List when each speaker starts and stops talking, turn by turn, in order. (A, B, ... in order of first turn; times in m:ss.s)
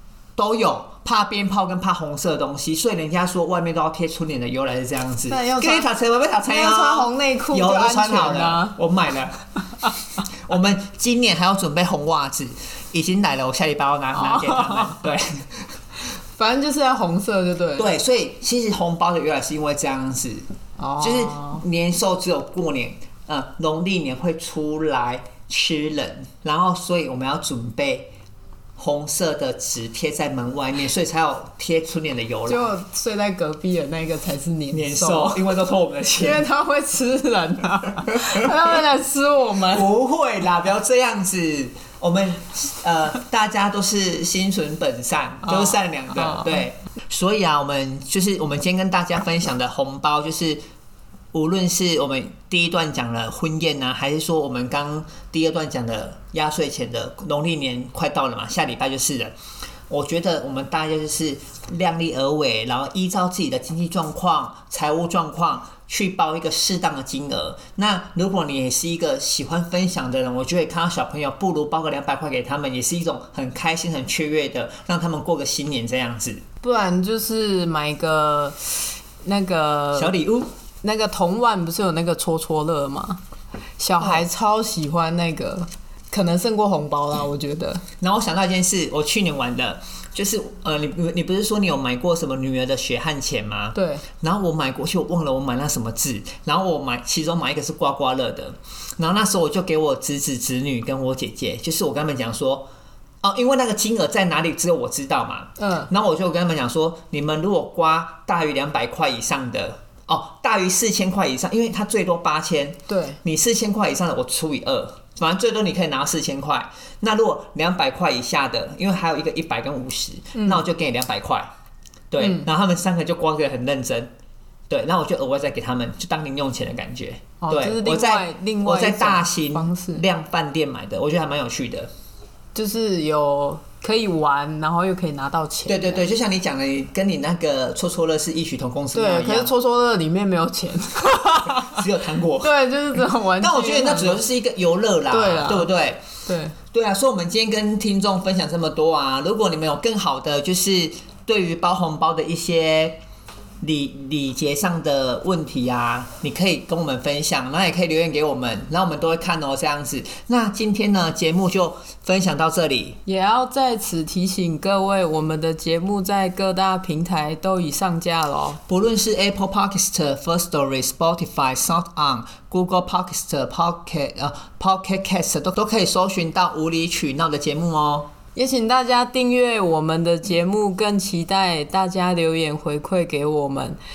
0:00.4-0:09.4 A
0:05.3-0:05.9 B
0:06.5-0:08.8 B
0:10.4-0:15.8 A
0:14.2-0:15.0 B
0:16.4-0:17.9 B
0:17.8-0:20.5 A
0:20.8-0:21.6 B
0:21.0-0:28.1 A
0:28.8-0:32.7 A
0:32.5-0:35.4 B
0:34.7-0:36.4 A
0:36.2-0:39.9 B
0:39.7-0:50.6 A
0:45.5-0:46.6 B
0:51.3-0:59.4 A
0:59.9-1:16.4 A
1:16.6-1:18.6 B
1:19.2-1:20.2 B
1:20.0-1:20.5 A
1:20.8-1:23.2 B
1:23.8-1:27.8 B
1:28.0-1:42.7 A
1:33.8-1:34.1 B
1:43.2-2:01.5 A
1:45.6-1:45.9 B
1:52.9-1:53.2 B
2:00.4-2:00.6 B
2:02.1-2:04.1 A
2:02.2-2:02.5 B
2:04.7-2:11.9 A
2:07.4-2:10.0 B
2:12.6-2:16.1 B
2:15.7-2:19.5 A
2:18.9-2:21.8 B
2:21.6-2:22.6 A
2:22.4-2:24.2 B
2:23.4-2:26.0 A
2:25.1-2:25.7 B
2:26.3-2:26.6 B
2:26.7-2:33.0 A
2:33.6-2:43.0 A
2:43.1-2:48.6 B
2:48.7-2:58.1 A
2:58.4-3:03.8 B